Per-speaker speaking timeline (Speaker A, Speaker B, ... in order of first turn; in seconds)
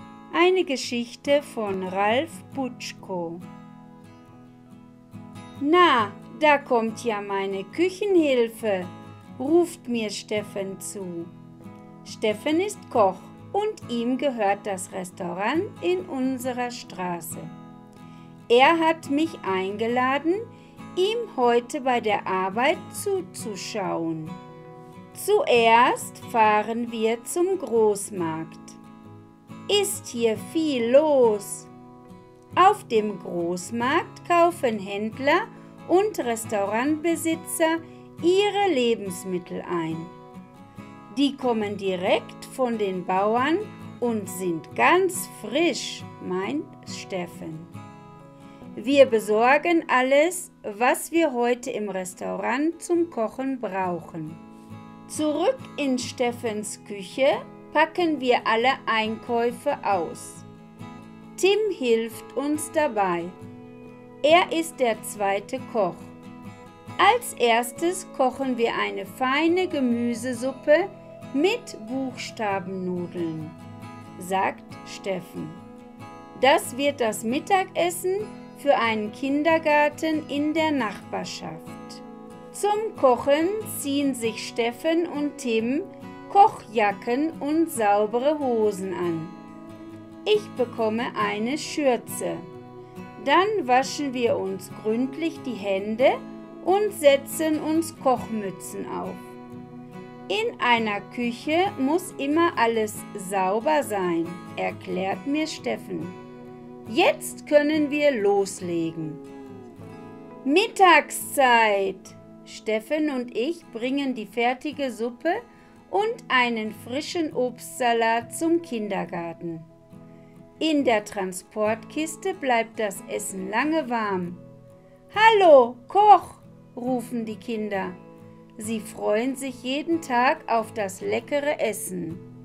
Speaker A: 0.3-3.5, 5.6-11.3, 12.0-17.5, 18.5-24.4, 25.1-28.8, 29.7-31.7, 32.5-40.2, 41.1-47.7, 48.8-54.4, 55.1-60.5, 61.4-63.4, 64.2-66.2, 67.0-73.6, 74.2-75.6, 76.3-89.4, 90.2-92.5, 93.2-99.2, 100.3-106.2, 106.9-109.2, 110.4-119.7, 120.6-124.4, 125.1-128.0, 128.6-132.3